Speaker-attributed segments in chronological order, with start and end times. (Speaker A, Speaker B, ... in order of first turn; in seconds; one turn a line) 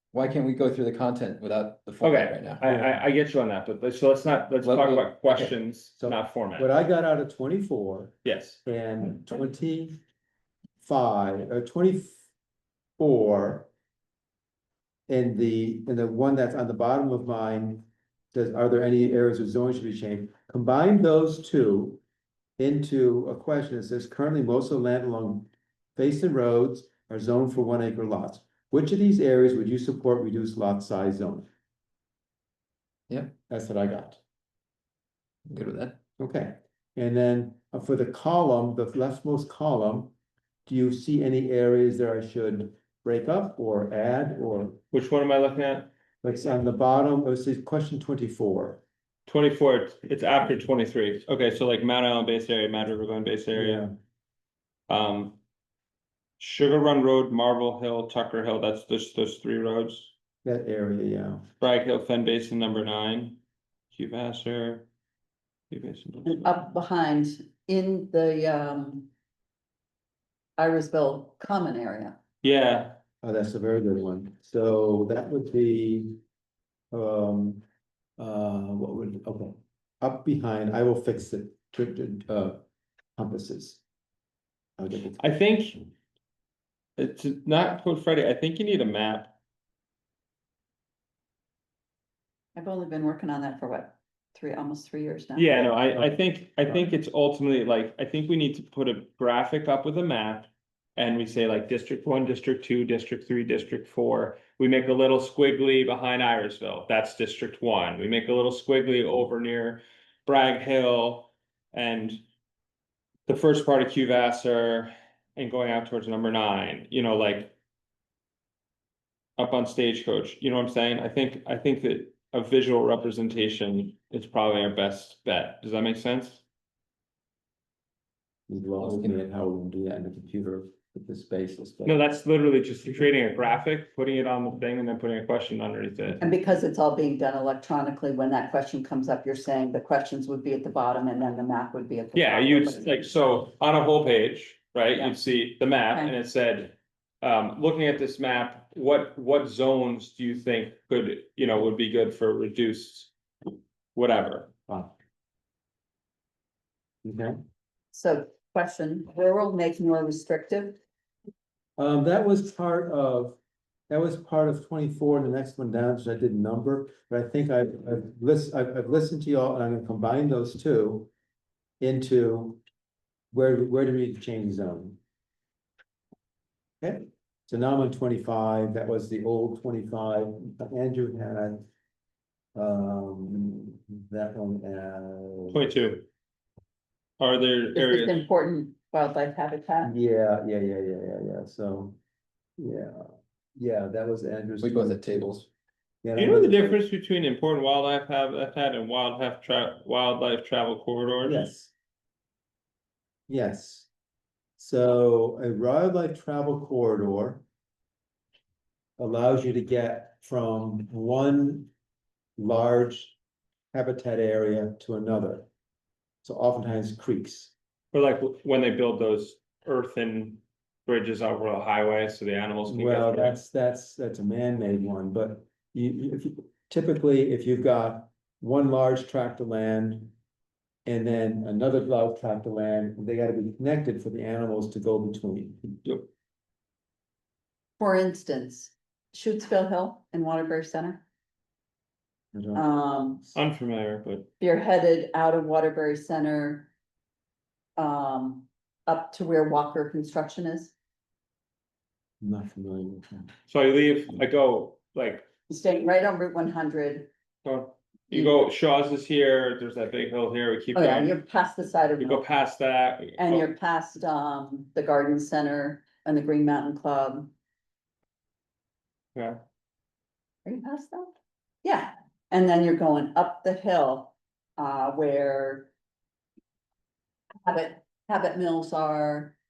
Speaker A: 0.1-2.6
Speaker B: 2.0-6.7
Speaker C: 2.6-3.0
Speaker A: 4.6-5.5
Speaker C: 6.0-10.0
Speaker B: 8.2-8.6
Speaker C: 10.8-12.2
Speaker C: 13.0-13.7
Speaker C: 15.1-22.0
Speaker C: 22.6-31.4
Speaker C: 33.5-34.2
Speaker A: 35.5-36.0
Speaker C: 36.2-40.1
Speaker C: 40.6-44.8
Speaker B: 44.9-45.9
Speaker C: 46.2-48.8
Speaker B: 49.3-53.9
Speaker C: 53.5-53.9
Speaker B: 54.9-55.4
Speaker B: 56.4-60.1
Speaker C: 60.4-61.4
Speaker B: 61.6-63.4
Speaker B: 63.9-64.9
Speaker B: 65.7-66.5
Speaker D: 66.2-69.1
Speaker D: 70.6-72.2
Speaker B: 72.4-73.0
Speaker C: 73.2-76.2
Speaker C: 76.9-77.6
Speaker C: 78.2-82.6
Speaker C: 83.2-83.8
Speaker C: 84.8-85.2
Speaker B: 85.2-85.9
Speaker B: 87.0-89.3
Speaker D: 92.5-95.7
Speaker B: 95.4-112.2
Speaker B: 113.3-117.5
Speaker B: 119.4-126.4
Speaker C: 128.5-132.0
Speaker A: 128.8-129.1
Speaker B: 131.8-136.2
Speaker D: 136.2-143.1
Speaker B: 142.1-153.1
Speaker D: 145.9-146.1
Speaker B: 153.9-154.5
Speaker C: 154.7-154.9
Speaker C: 157.0-157.4
Speaker D: 157.9-160.8
Speaker C: 161.8-163.4
Speaker C: 163.9-171.1
Speaker C: 171.8-172.6
Speaker C: 173.3-175.0
Speaker C: 176.8-181.7
Speaker C: 182.5-185.7
Speaker B: 185.5-186.1
Speaker B: 187.2-188.2
Speaker D: 187.7-189.9
Speaker C: 189.8-192.0
Speaker C: 192.6-195.2
Speaker A: 194.6-195.5
Speaker C: 196.0-196.8
Speaker B: 196.1-201.5
Speaker C: 201.2-201.7
Speaker C: 203.3-203.9
Speaker C: 204.6-207.4
Speaker C: 209.0-211.7
Speaker C: 212.4-213.2
Speaker C: 213.7-215.5
Speaker C: 216.2-217.5
Speaker B: 217.9-223.4
Speaker C: 222.7-230.1
Speaker C: 230.8-235.8
Speaker D: 237.8-241.0
Speaker C: 242.3-242.6
Speaker D: 242.5-243.2
Speaker B: 243.3-244.3
Speaker D: 244.4-246.7
Speaker D: 247.8-250.7
Speaker C: 252.2-253.3
Speaker B: 253.5-255.3
Speaker D: 255.5-257.1
Speaker B: 257.4-261.1
Speaker D: 258.1-258.4
Speaker D: 260.7-262.2
Speaker B: 262.0-263.5
Speaker D: 263.2-267.3
Speaker D: 270.4-271.1
Speaker D: 271.6-275.7
Speaker D: 277.4-279.3